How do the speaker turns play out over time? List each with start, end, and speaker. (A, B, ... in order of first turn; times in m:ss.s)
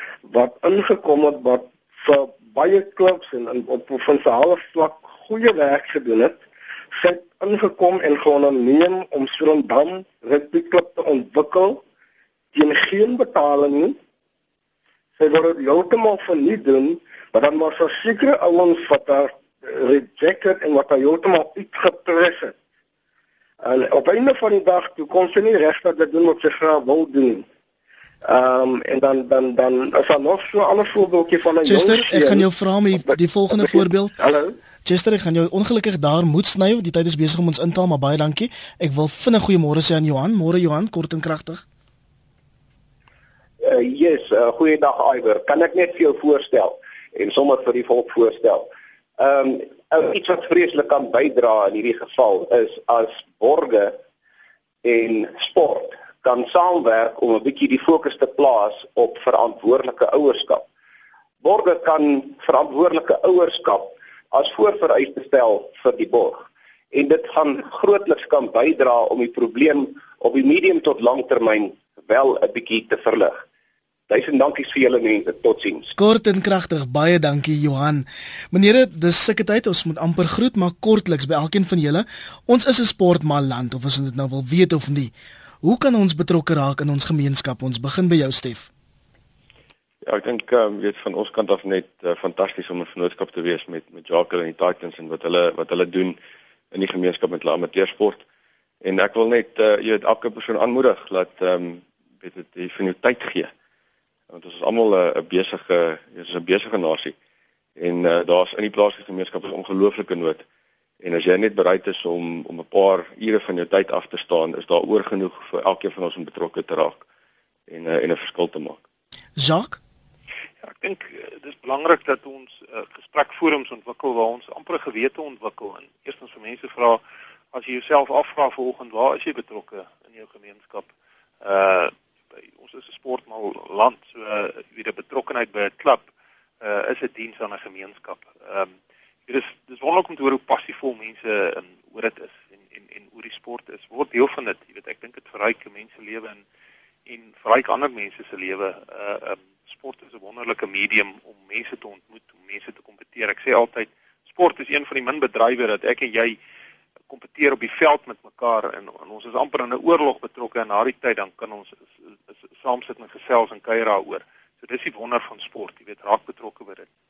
0:00.3-0:11.8 A
0:12.5-0:14.0 A
0:15.2-0:22.5 A
0:23.6-0:27.5 A
0:28.2-0:34.5 A
0:31.6-0:34.1 B
0:34.8-0:41.6 B
0:43.6-0:54.0 C
0:54.8-1:00.6 C
1:01.4-1:13.4 C
1:14.1-1:15.9 C
1:16.0-1:25.1 B
1:25.6-1:28.7 B
1:30.0-1:36.2 D
1:36.7-1:38.2 D
1:38.8-1:43.5 D
1:44.3-1:47.1 D
1:47.8-1:50.4 D
1:51.0-1:57.0 D
1:57.7-1:58.8 D
1:59.4-1:59.8 B
2:00.6-2:07.0 E
2:07.5-2:10.9 E
2:11.4-2:11.9 E
2:12.6-2:16.0 E
2:16.6-2:18.7 E
2:19.3-2:26.4 E
2:27.0-2:36.4 E
2:37.1-2:41.8 E
2:42.3-2:46.9 E